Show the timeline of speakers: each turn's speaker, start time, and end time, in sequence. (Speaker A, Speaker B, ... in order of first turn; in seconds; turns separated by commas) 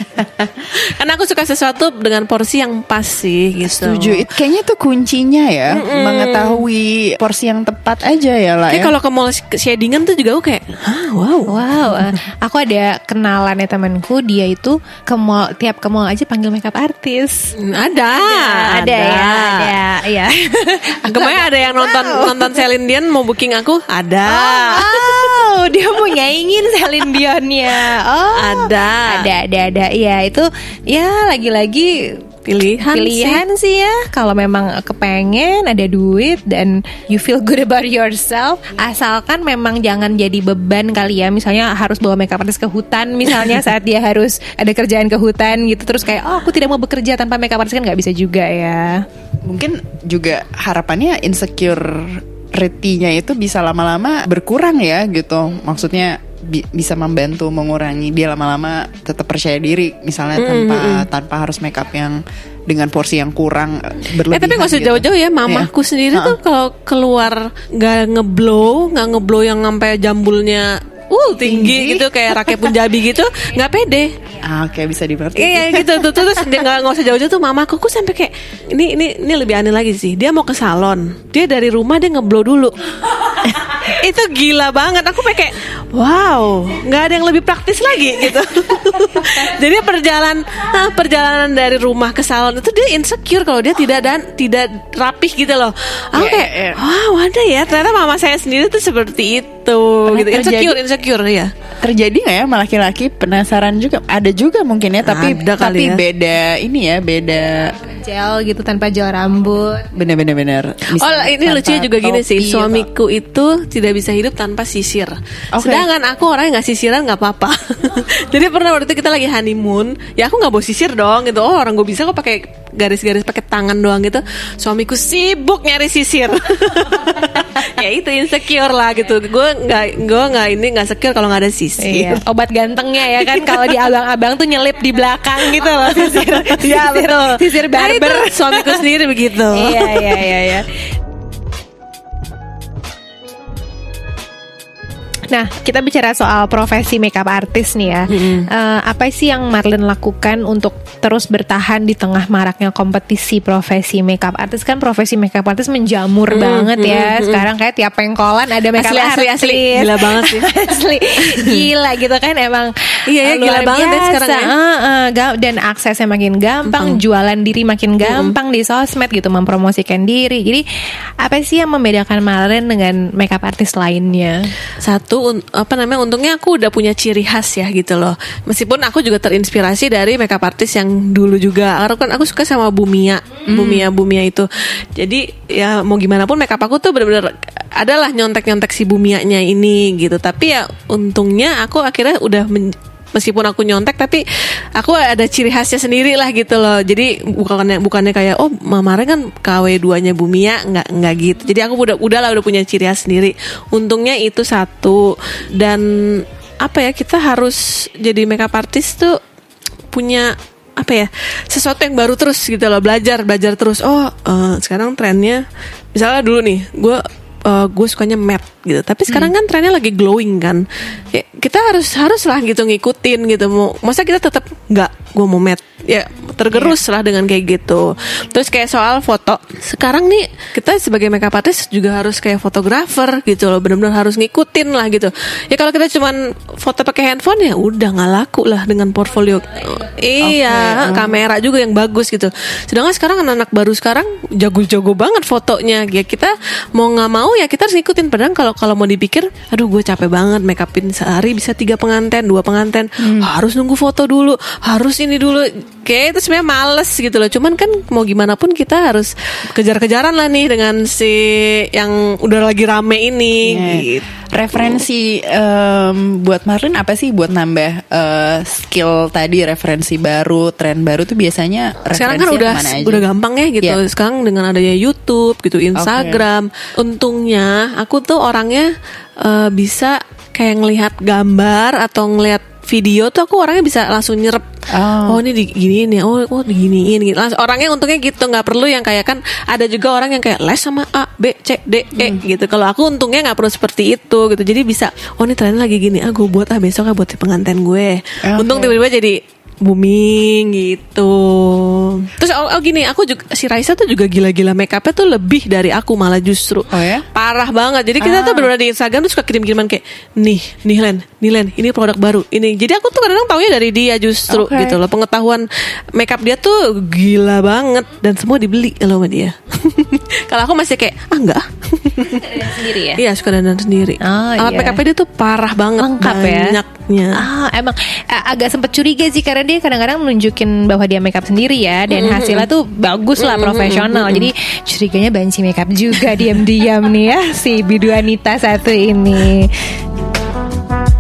Speaker A: 0.2-0.5, Speaker B: 0.7-4.2, Speaker A: 3.6-8.9, Speaker B: 5.7-6.6, Speaker B: 8.7-12.1, Speaker C: 11.5-22.6, Speaker B: 17.6-19.7, Speaker B: 21.1-25.3, Speaker C: 24.3-32.2, Speaker B: 28.3-29.3, Speaker B: 32.5-33.4, Speaker C: 32.8-49.0, Speaker A: 49.4-66.4, Speaker B: 60.4-61.1, Speaker B: 64.3-74.1, Speaker A: 71.4-72.6, Speaker A: 74.4-76.3, Speaker B: 75.3-82.8, Speaker B: 83.4-101.5, Speaker A: 96.1-96.8, Speaker A: 100.1-100.8, Speaker A: 101.8-107.8, Speaker B: 105.0-106.0, Speaker C: 107.8-109.9, Speaker A: 109.9-112.9, Speaker B: 110.9-132.2, Speaker A: 115.5-115.9, Speaker C: 131.8-138.8, Speaker B: 133.2-133.8, Speaker B: 135.6-140.3, Speaker C: 139.5-140.8, Speaker C: 145.3-170.6, Speaker B: 148.1-148.5, Speaker B: 156.3-157.5, Speaker B: 158.7-160.7, Speaker B: 163.1-164.5, Speaker B: 166.6-167.0, Speaker B: 168.0-168.3, Speaker C: 171.2-174.5, Speaker B: 174.8-194.2, Speaker A: 183.5-183.9, Speaker B: 194.8-209.2, Speaker B: 209.9-215.4, Speaker B: 215.9-264.1, Speaker A: 219.1-219.3, Speaker A: 240.2-241.2, Speaker A: 253.0-253.3, Speaker A: 263.4-273.1, Speaker B: 271.9-284.4, Speaker A: 275.7-276.2, Speaker A: 284.7-285.2, Speaker B: 285.0-327.2, Speaker A: 291.9-292.2, Speaker A: 298.2-298.8, Speaker A: 306.7-307.1, Speaker A: 308.0-308.5, Speaker A: 314.3-314.8, Speaker C: 322.0-323.0, Speaker C: 324.0-324.8, Speaker C: 325.8-326.6, Speaker C: 327.1-339.5, Speaker B: 331.9-332.5, Speaker B: 333.2-334.3